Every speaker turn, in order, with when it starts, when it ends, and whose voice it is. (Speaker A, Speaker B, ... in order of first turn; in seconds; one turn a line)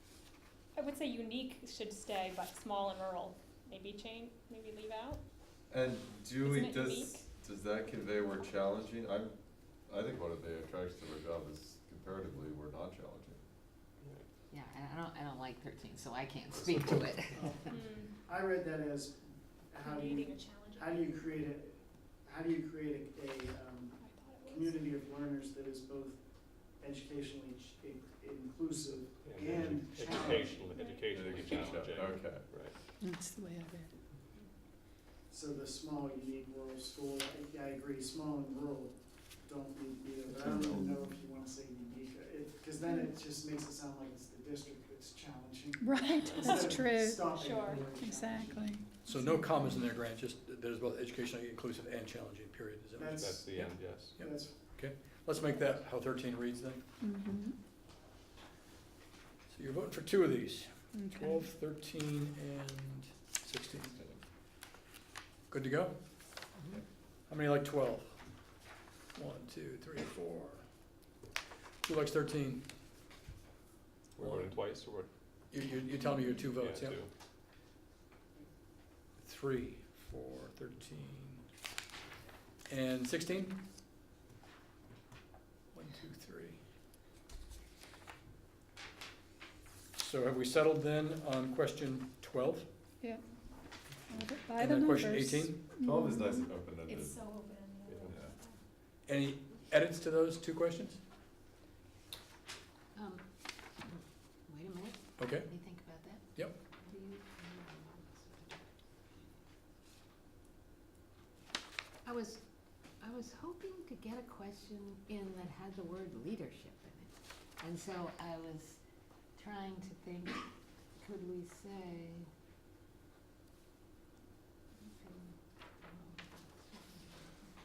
Speaker A: 0.8-5.2
Speaker B: 5.7-9.3
Speaker A: 6.4-7.3
Speaker B: 9.9-13.4
Speaker C: 14.5-17.4
Speaker D: 16.6-17.3
Speaker E: 17.4-26.2
Speaker A: 17.7-18.1
Speaker A: 19.8-21.3
Speaker A: 24.0-24.9
Speaker E: 26.8-30.7
Speaker D: 29.2-32.8
Speaker A: 30.7-31.6
Speaker B: 31.1-32.4
Speaker F: 33.0-33.9
Speaker E: 35.3-48.8
Speaker B: 40.3-40.9
Speaker F: 45.8-47.4
Speaker A: 46.4-46.8
Speaker A: 47.4-47.9
Speaker F: 48.0-49.8
Speaker G: 49.0-53.7
Speaker E: 53.0-54.6
Speaker D: 53.2-54.2
Speaker G: 54.2-56.8
Speaker F: 57.0-57.6
Speaker G: 59.5-64.0
Speaker F: 60.9-61.5
Speaker G: 65.5-66.0
Speaker G: 67.3-68.2
Speaker G: 69.2-70.6
Speaker G: 71.8-72.7
Speaker D: 74.2-75.1
Speaker G: 74.2-74.6
Speaker G: 75.5-77.0
Speaker D: 76.5-77.1
Speaker G: 79.2-81.4
Speaker G: 82.7-83.6
Speaker G: 85.7-86.6
Speaker G: 90.0-92.7
Speaker F: 94.1-96.5
Speaker G: 94.5-95.7
Speaker B: 95.8-97.2
Speaker A: 96.9-98.6
Speaker D: 97.9-98.1
Speaker G: 99.1-101.0
Speaker C: 103.0-103.2
Speaker C: 104.5-106.2
Speaker G: 105.2-105.5
Speaker C: 106.8-108.6
Speaker C: 112.0-112.4
Speaker C: 113.0-118.8
Speaker C: 119.4-120.4
Speaker C: 121.0-122.3
Speaker C: 125.0-125.3
Speaker C: 125.8-127.1